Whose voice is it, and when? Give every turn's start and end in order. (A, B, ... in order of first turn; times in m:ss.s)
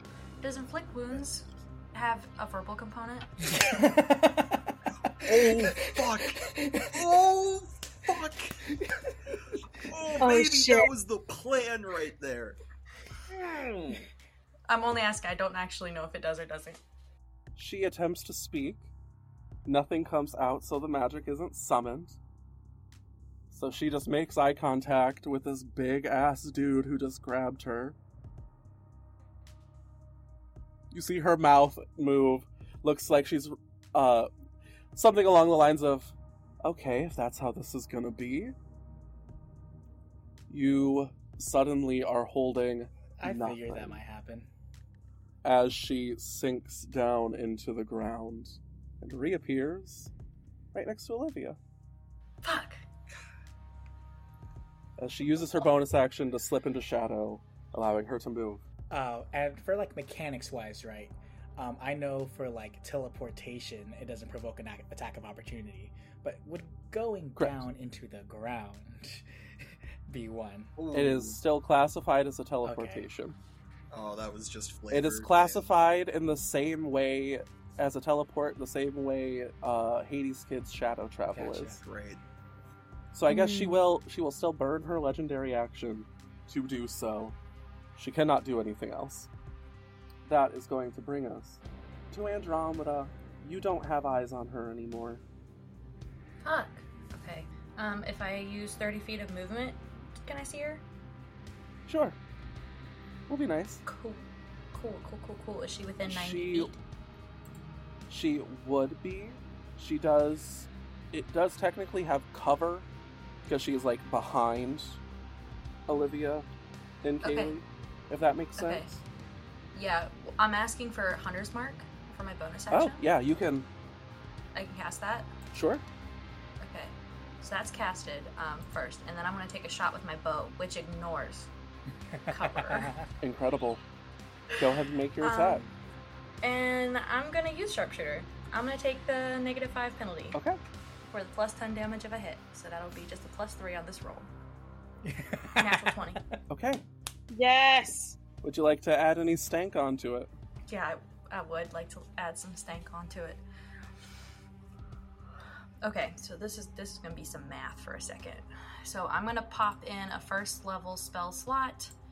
0:00.4-0:03.3 A
0:03.5-0:06.9 B
0:05.1-0:08.6 C
0:09.8-0:12.6 C
0:10.2-0:10.9 D
0:14.7-0:16.8 A
0:17.6-0:18.9 E
0:19.6-0:22.2 E
0:23.5-0:28.0 E
0:30.9-0:34.3 E
0:34.9-0:38.6 E
0:40.5-0:44.0 E
0:43.2-0:44.5 B
0:45.4-0:50.1 E
0:50.7-0:51.6 E
0:52.4-0:52.8 A
0:55.0-0:58.6 E
0:58.9-1:10.8 B
1:07.4-1:07.6 E
1:10.8-1:11.4 C
1:10.9-1:13.4 E
1:12.6-1:13.1 B
1:13.9-1:15.7 C
1:14.9-1:21.8 E
1:21.3-1:21.8 B
1:21.7-1:22.2 C
1:23.1-1:27.4 E
1:23.3-1:23.8 D
1:28.0-1:29.3 E
1:30.2-1:35.2 E
1:36.4-1:40.8 A
1:41.9-1:42.2 E
1:43.3-1:43.8 E
1:43.8-1:46.7 A
1:46.1-1:46.8 E
1:48.1-1:52.9 E
1:53.4-1:55.0 E
1:55.9-1:56.5 E
1:57.0-1:58.9 E
1:57.2-1:57.6 A
1:58.6-1:59.0 A
1:59.7-2:03.1 A
2:02.7-2:03.7 E
2:04.5-2:05.3 A
2:05.5-2:05.8 E
2:06.6-2:11.5 A
2:12.1-2:13.1 B
2:12.3-2:12.9 A
2:13.2-2:13.8 E
2:14.6-2:15.6 E
2:15.2-2:15.7 A
2:16.4-2:20.4 A
2:21.1-2:24.3 A
2:25.0-2:26.4 B
2:25.6-2:26.2 A
2:26.5-2:26.8 E
2:27.3-2:28.2 D
2:28.4-2:30.3 E
2:30.7-2:33.4 A
2:35.8-2:41.9 A